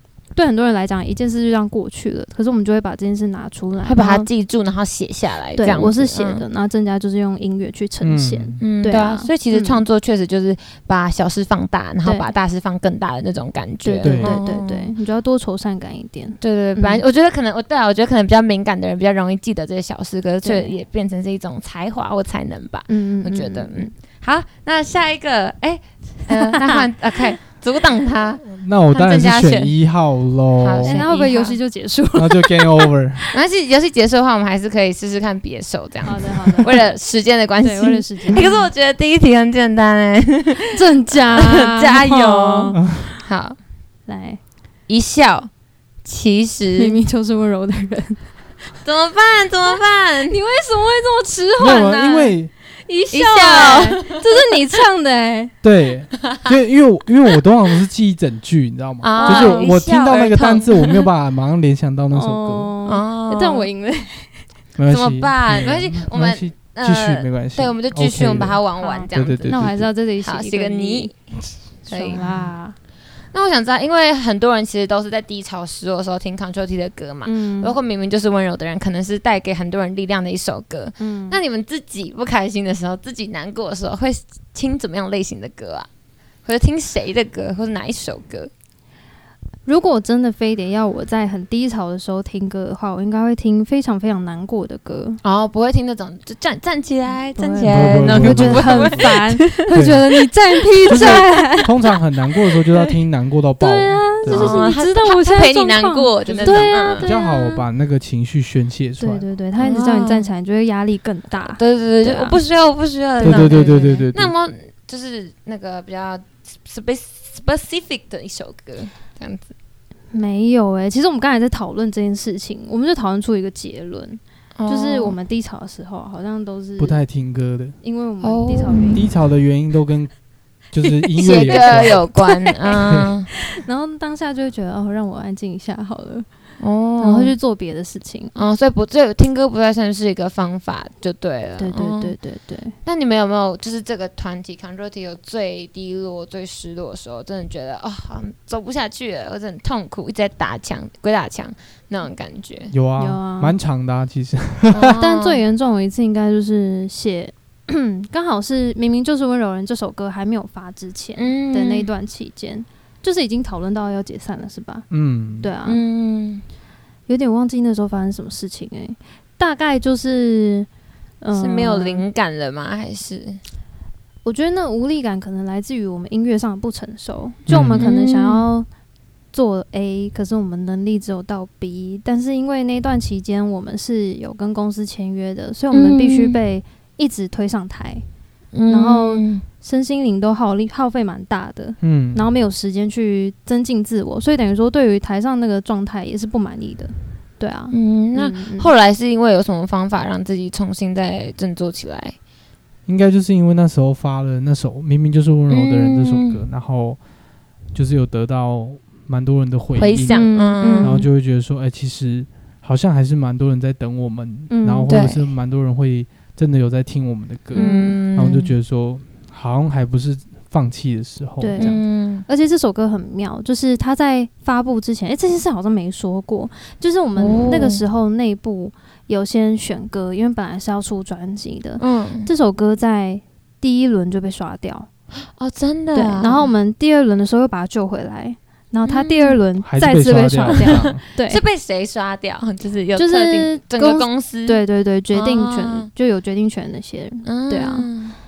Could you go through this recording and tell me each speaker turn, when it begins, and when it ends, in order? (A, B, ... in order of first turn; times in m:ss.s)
0:00.3-0:04.3 A
0:03.8-0:06.4 B
0:05.6-0:09.8 A
0:08.0-0:08.6 C
0:08.6-0:14.9 B
0:12.0-0:12.3 A
0:13.8-0:17.0 A
0:14.0-0:14.4 C
0:16.4-0:29.7 B
0:20.4-0:20.7 A
0:22.9-0:23.9 A
0:26.3-0:27.3 A
0:28.5-0:31.0 C
0:30.6-0:31.6 B
0:30.8-0:33.3 A
0:32.2-0:33.2 C
0:33.3-0:43.6 B
0:36.0-0:36.8 A
0:37.6-0:38.6 A
0:40.7-0:43.0 A
0:42.8-0:43.1 C
0:44.1-0:44.4 A
0:44.9-0:45.5 B
0:46.0-0:47.0 B
0:46.8-0:48.2 A
0:48.8-0:50.4 B
0:50.3-0:55.5 A
0:51.6-0:52.5 C
0:53.1-0:54.2 B
0:55.6-1:02.7 C
0:59.0-1:01.1 B
0:59.1-0:59.7 A
1:02.1-1:04.4 A
1:02.9-1:03.7 B
1:04.8-1:09.9 C
1:04.9-1:09.6 B
1:08.8-1:11.1 A
1:10.2-1:12.2 B
1:11.9-1:12.8 A
1:12.2-1:12.5 C
1:13.3-1:25.9 B
1:17.2-1:17.8 A
1:21.0-1:21.4 A
1:26.4-1:28.5 B
1:29.6-1:35.2 A
1:35.2-1:39.6 B
1:37.4-1:41.7 A
1:37.7-1:39.1 C
1:39.7-1:40.0 C
1:40.8-1:41.9 B
1:40.9-1:44.7 C
1:43.6-1:47.6 A
1:44.3-1:47.1 B
1:46.3-1:49.2 C
1:49.0-1:52.4 A
1:49.6-1:50.3 B
1:51.4-1:59.5 B
1:53.2-1:54.1 A
1:53.2-1:54.3 C
2:00.1-2:07.0 A
2:04.6-2:05.2 B
2:06.8-2:07.8 C
2:07.8-2:09.0 A
2:08.2-2:09.0 B
2:08.9-2:10.1 C
2:10.7-2:12.0 C
2:11.2-2:12.5 A
2:11.2-2:13.3 B
2:13.5-2:16.3 A
2:16.6-2:17.4 B
2:17.0-2:18.3 A
2:18.4-2:22.2 B
2:21.6-2:22.8 A
2:22.8-2:32.7 B
2:32.7-2:35.0 C
2:33.0-2:33.6 A
2:34.7-2:35.4 B
2:35.0-2:44.9 A
2:41.2-2:41.9 B
2:44.9-2:45.5 C
2:45.4-2:45.8 A
2:45.6-2:46.4 B
2:47.1-2:50.7 A
2:51.2-2:52.0 A
2:51.3-2:53.4 B
2:54.2-2:58.7 A
2:57.5-2:57.9 C
2:57.8-2:58.5 B
2:59.3-3:08.0 A
3:05.7-3:06.4 B
3:08.5-3:09.4 B
3:08.7-3:18.7 A
3:11.8-3:12.2 C
3:17.7-3:22.2 B
3:22.9-3:27.0 C
3:25.5-3:26.4 B
3:27.7-3:41.8 C
3:29.8-3:31.0 B
3:30.1-3:31.1 A
3:34.5-3:35.0 A
3:34.9-3:35.2 B
3:37.5-3:38.5 B
3:37.6-3:38.0 A
3:41.4-3:54.9 A
3:41.6-3:42.2 B
3:47.2-3:47.8 B
3:51.8-3:52.3 B
3:55.4-3:56.5 B
3:55.9-4:01.4 A
3:58.8-3:59.4 B
3:59.6-4:01.0 C
4:00.7-4:04.6 B
4:03.0-4:07.9 A
4:05.1-4:05.9 B
4:07.2-4:08.2 B